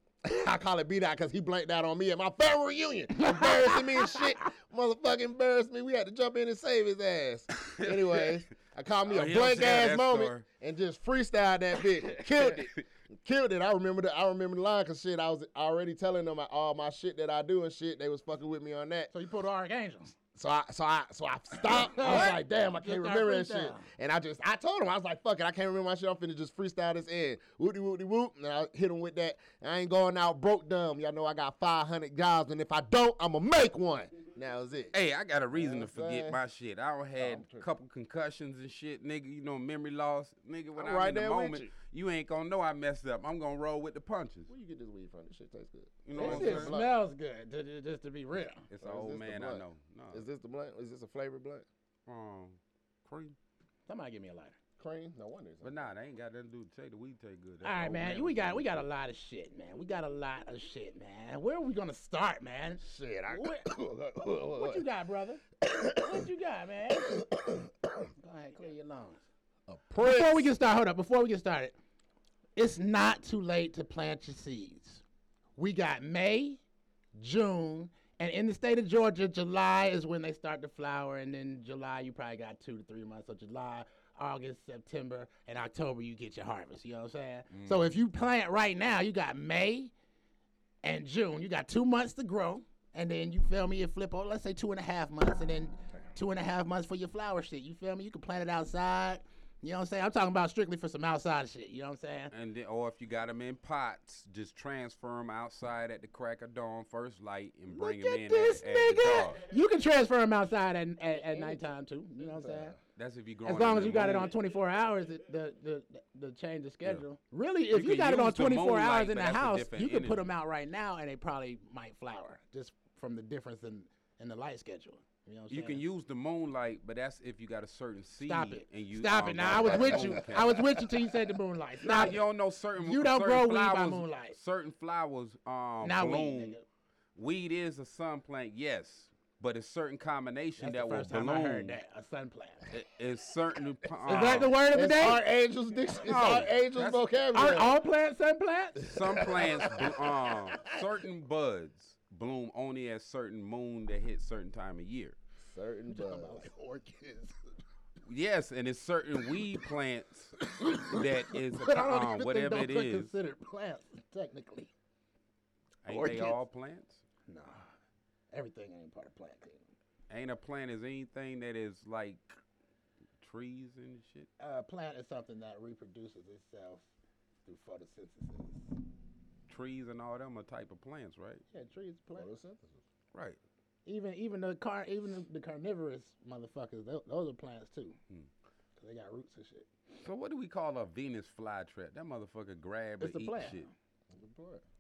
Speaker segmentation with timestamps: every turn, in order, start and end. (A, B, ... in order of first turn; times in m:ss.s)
0:00.2-0:19.1 A
0:03.1-0:04.3 B
0:07.6-0:08.4 C
0:09.1-0:10.4 C
0:12.3-0:12.8 C
0:19.1-0:20.2 B
0:20.4-0:35.0 A
0:21.7-0:23.9 B
0:34.9-0:44.5 C
0:35.5-0:36.4 A
0:37.2-0:37.7 A
0:40.8-0:41.7 A
0:44.5-0:46.9 A
0:46.0-0:46.8 C
0:46.1-0:48.7 B
0:48.7-0:50.2 C
0:48.8-0:51.7 A
0:52.1-0:53.4 C
0:53.9-0:54.6 B
0:54.8-0:55.9 A
0:55.6-0:58.8 C
0:57.6-1:03.7 B
1:02.8-1:04.8 A
1:04.2-1:07.2 B
1:05.6-1:06.2 A
1:07.1-1:07.9 A
1:08.2-1:09.2 B
1:09.7-1:10.5 A
1:10.0-1:11.8 B
1:12.6-1:15.0 B
1:15.6-1:16.6 B
1:17.2-1:29.9 B
1:27.5-1:28.0 C
1:30.8-1:42.3 B
1:42.3-1:49.4 C
1:47.7-1:52.8 B
1:51.2-1:51.6 A
1:52.3-1:52.8 A
1:53.0-1:54.3 C
1:53.5-2:05.8 B
1:57.7-2:00.2 C
2:05.5-2:10.8 C
2:08.2-2:12.2 B
2:09.7-2:10.8 A
2:11.8-2:16.6 C
2:12.8-2:14.4 B
2:15.8-2:16.6 B
2:17.2-2:21.8 C
2:20.6-2:22.7 B
2:22.7-2:24.6 C
2:24.1-2:25.2 B
2:24.2-2:27.8 A
2:26.0-2:27.0 C
2:27.3-2:28.9 B
2:28.8-2:30.8 A
2:28.9-2:35.2 C
2:35.4-2:36.5 A
2:35.9-2:37.4 B
2:38.1-2:43.1 C
2:40.6-2:41.0 B
2:41.6-2:44.7 B
2:45.8-2:47.0 C
2:45.9-2:46.4 B
2:47.3-2:47.6 B
2:48.3-2:49.6 B
2:50.1-2:52.4 C
2:53.2-2:54.3 C
2:54.4-2:56.9 B
2:57.5-2:58.7 B
2:59.5-3:01.4 C
3:01.5-3:02.3 B
3:02.2-3:02.8 A
3:03.1-3:03.4 C
3:03.9-3:08.0 B
3:08.8-3:09.7 B
3:10.0-3:13.7 C
3:13.0-3:13.7 B
3:14.1-3:14.6 A